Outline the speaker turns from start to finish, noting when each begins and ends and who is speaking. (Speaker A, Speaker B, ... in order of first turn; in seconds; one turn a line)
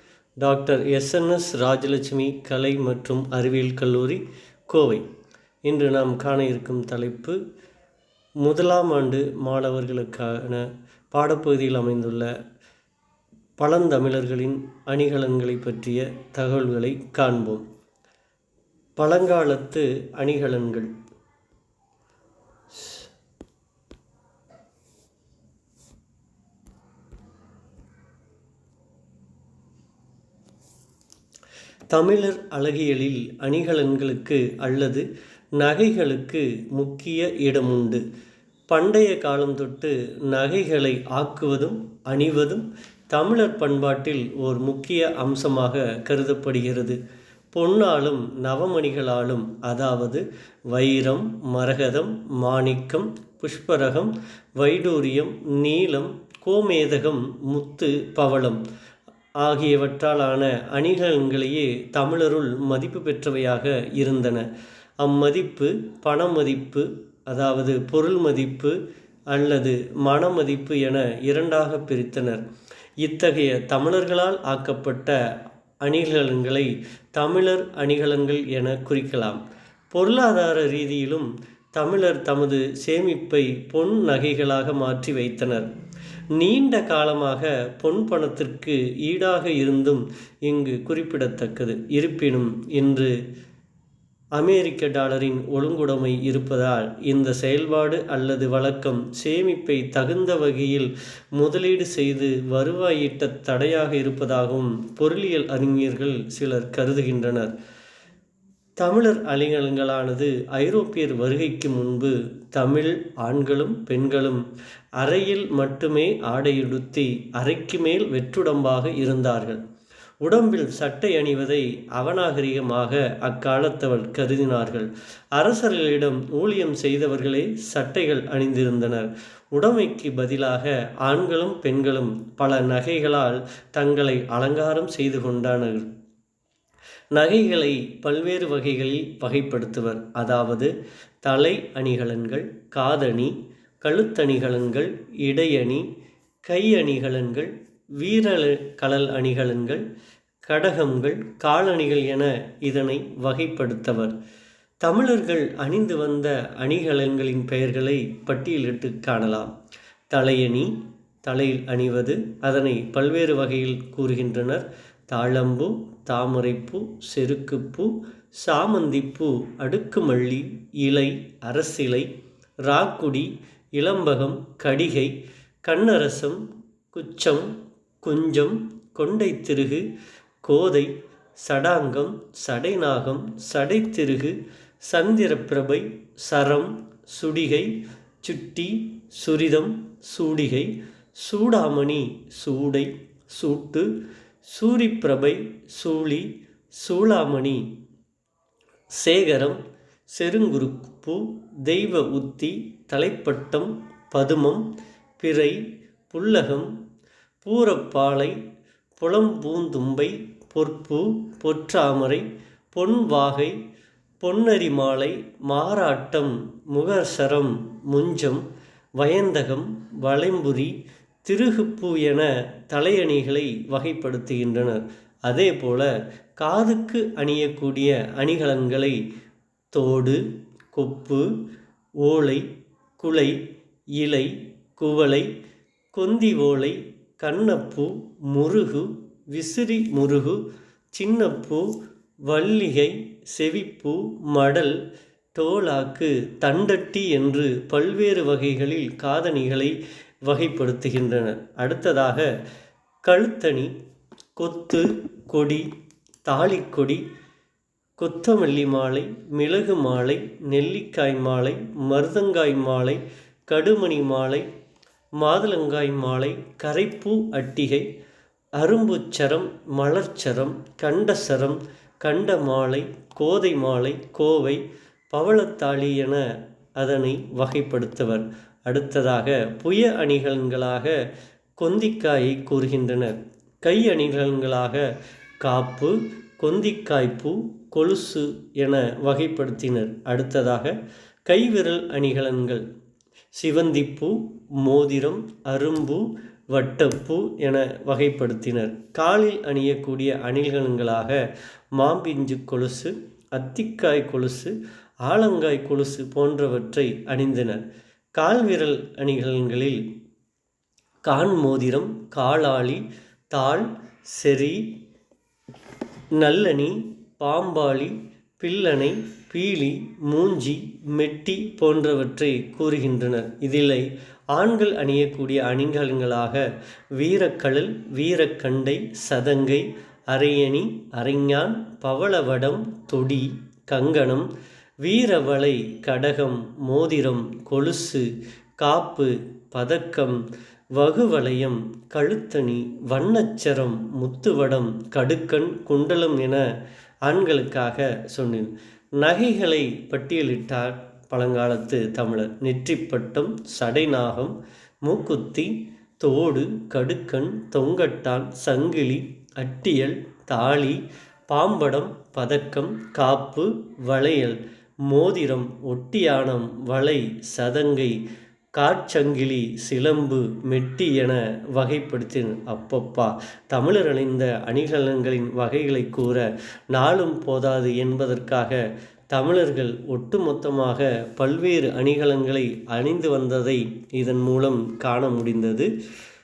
Speaker A: 0.4-5.0
Speaker A: 5.6-7.4
Speaker A: 8.4-12.3
Speaker A: 13.6-17.6
Speaker A: 19.0-20.9
Speaker A: 31.9-35.0
Speaker A: 35.6-38.0
Speaker A: 38.7-47.0
Speaker A: 47.5-58.6
Speaker A: 59.4-64.5
Speaker A: 65.0-68.8
Speaker A: 69.3-72.4
Speaker A: 73.0-75.2
Speaker A: 75.8-79.4
Speaker A: 79.9-85.7
Speaker A: 86.3-93.1
Speaker A: 94.3-107.5
Speaker A: 108.8-114.4
Speaker A: 115.0-119.6
Speaker A: 120.2-135.9
Speaker A: 137.1-140.7
Speaker A: 141.2-145.9
Speaker A: 146.4-149.8
Speaker A: 150.4-154.1
Speaker A: 154.8-159.5
Speaker A: 160.1-172.1
Speaker A: 172.7-179.9
Speaker A: 180.4-193.9
Speaker A: 194.5-197.7
Speaker A: 199.0-204.7
Speaker A: 205.2-206.7
Speaker A: 207.4-208.4
Speaker A: 209.0-213.6
Speaker A: 214.2-218.5
Speaker A: 219.0-229.0
Speaker A: 229.7-231.3
Speaker A: 232.0-233.4
Speaker A: 234.0-235.3
Speaker A: 235.9-240.4
Speaker A: 240.9-241.7
Speaker A: 242.2-244.8
Speaker A: 245.3-252.3
Speaker A: 253.0-253.7
Speaker A: 254.4-255.7
Speaker A: 256.2-257.0
Speaker A: 258.0-264.5
Speaker A: 265.2-267.9
Speaker A: 268.6-276.2
Speaker A: 276.8-281.0
Speaker A: 281.6-284.9
Speaker A: 285.4-290.8
Speaker A: 291.2-292.6
Speaker A: 293.3-301.2
Speaker A: 301.8-307.6
Speaker A: 308.2-309.8
Speaker A: 311.1-314.7
Speaker A: 316.1-326.4
Speaker A: 327.0-334.3
Speaker A: 334.8-338.1
Speaker A: 338.6-340.2
Speaker A: 340.8-346.4
Speaker A: 347.1-368.0
Speaker A: 368.6-378.6
Speaker A: 379.1-385.7